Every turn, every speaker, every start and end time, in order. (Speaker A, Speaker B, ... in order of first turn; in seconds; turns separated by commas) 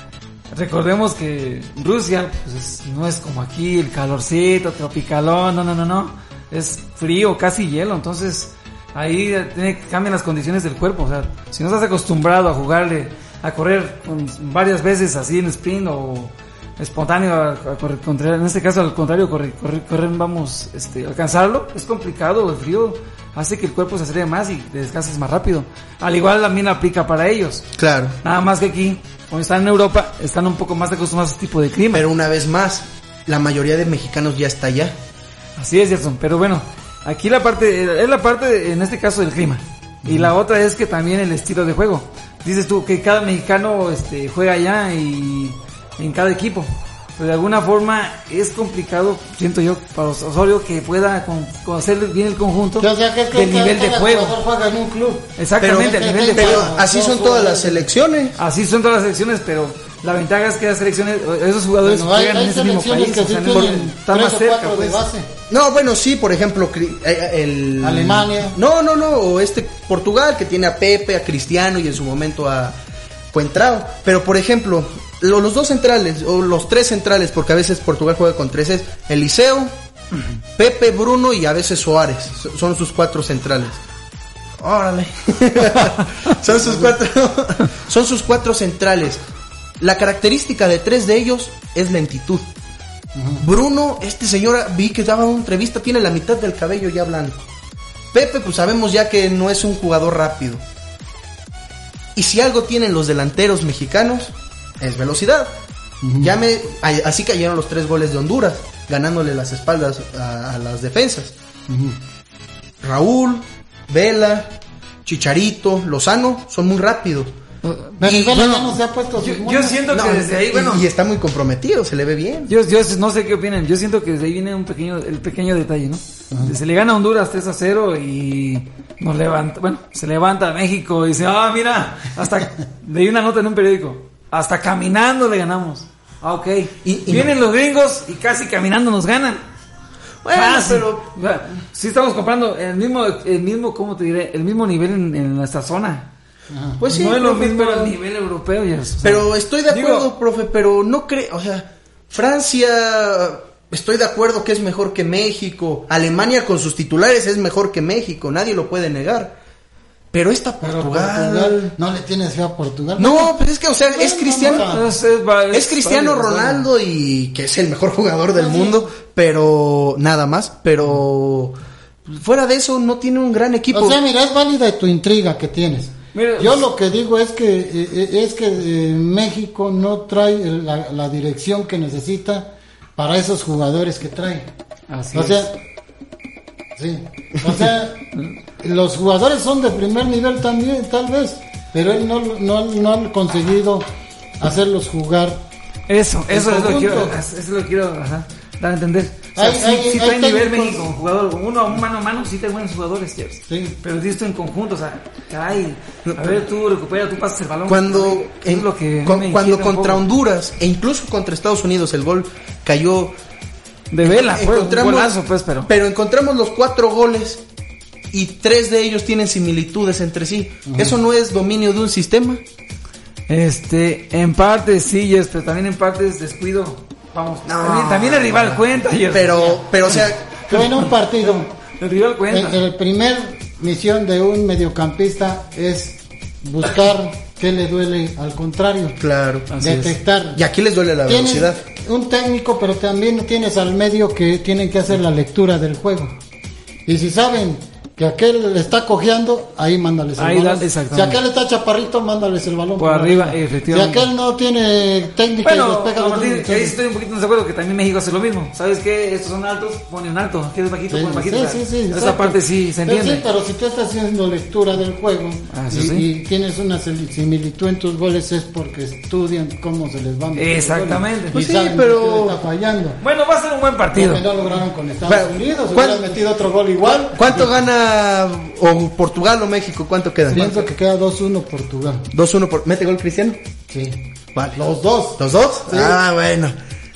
Speaker A: 0.5-27.6, Speaker B: 27.8-28.2, Speaker A: 28.2-32.0, Speaker B: 31.9-35.0, Speaker A: 35.6-54.4, Speaker C: 40.0-40.3, Speaker C: 52.8-57.9, Speaker A: 55.4-56.7, Speaker B: 55.6-58.4, Speaker A: 58.4-65.0, Speaker C: 61.8-65.3, Speaker B: 65.5-72.8, Speaker C: 67.8-68.6, Speaker B: 73.3-79.7, Speaker B: 80.5-83.8, Speaker B: 84.6-89.2, Speaker B: 89.8-92.5, Speaker C: 93.1-93.4, Speaker B: 93.4-97.4, Speaker B: 98.1-100.6, Speaker B: 102.1-105.5, Speaker C: 106.0-106.3, Speaker B: 106.2-111.3, Speaker C: 111.7-112.0, Speaker B: 112.8-114.5, Speaker B: 115.0-117.3, Speaker A: 117.6-118.0, Speaker C: 118.0-119.9, Speaker B: 118.0-118.8, Speaker A: 119.2-120.8, Speaker B: 119.9-122.5, Speaker A: 122.5-139.4, Speaker B: 136.8-137.3, Speaker B: 140.2-141.0, Speaker A: 140.3-146.1, Speaker C: 146.5-146.8, Speaker B: 146.8-148.0, Speaker A: 146.9-150.1, Speaker B: 149.0-159.4, Speaker B: 160.1-161.7, Speaker C: 160.6-164.9, Speaker B: 163.0-164.8, Speaker A: 164.5-166.7, Speaker B: 165.5-174.0, Speaker C: 168.3-168.8, Speaker C: 173.7-184.5, Speaker A: 176.1-176.6, Speaker A: 184.9-185.5, Speaker C: 185.1-185.6, Speaker C: 186.8-193.9, Speaker C: 194.4-195.5, Speaker A: 195.9-210.0, Speaker C: 196.3-197.2, Speaker C: 199.3-200.9, Speaker C: 203.5-203.8, Speaker B: 206.0-206.4, Speaker B: 207.7-213.2, Speaker A: 213.9-215.7, Speaker B: 214.0-217.4, Speaker B: 218.1-222.4, Speaker C: 220.7-221.0, Speaker A: 223.3-232.6, Speaker B: 227.4-230.4, Speaker C: 230.5-231.5, Speaker C: 232.3-239.0, Speaker B: 239.0-239.5, Speaker A: 239.5-240.0, Speaker C: 239.6-240.4, Speaker B: 240.3-241.6, Speaker C: 241.0-246.2, Speaker C: 246.8-256.8, Speaker A: 250.2-251.2, Speaker A: 252.8-254.1, Speaker A: 255.4-263.2, Speaker C: 260.9-273.0, Speaker A: 265.5-266.1, Speaker A: 270.4-271.4, Speaker B: 271.3-272.4, Speaker A: 273.0-274.2, Speaker C: 273.9-277.6, Speaker B: 275.1-276.1, Speaker B: 277.1-280.5, Speaker C: 280.3-282.1, Speaker A: 280.3-280.6, Speaker B: 282.1-283.4, Speaker C: 283.7-284.0, Speaker B: 284.3-284.6, Speaker C: 284.5-286.0, Speaker B: 285.2-286.6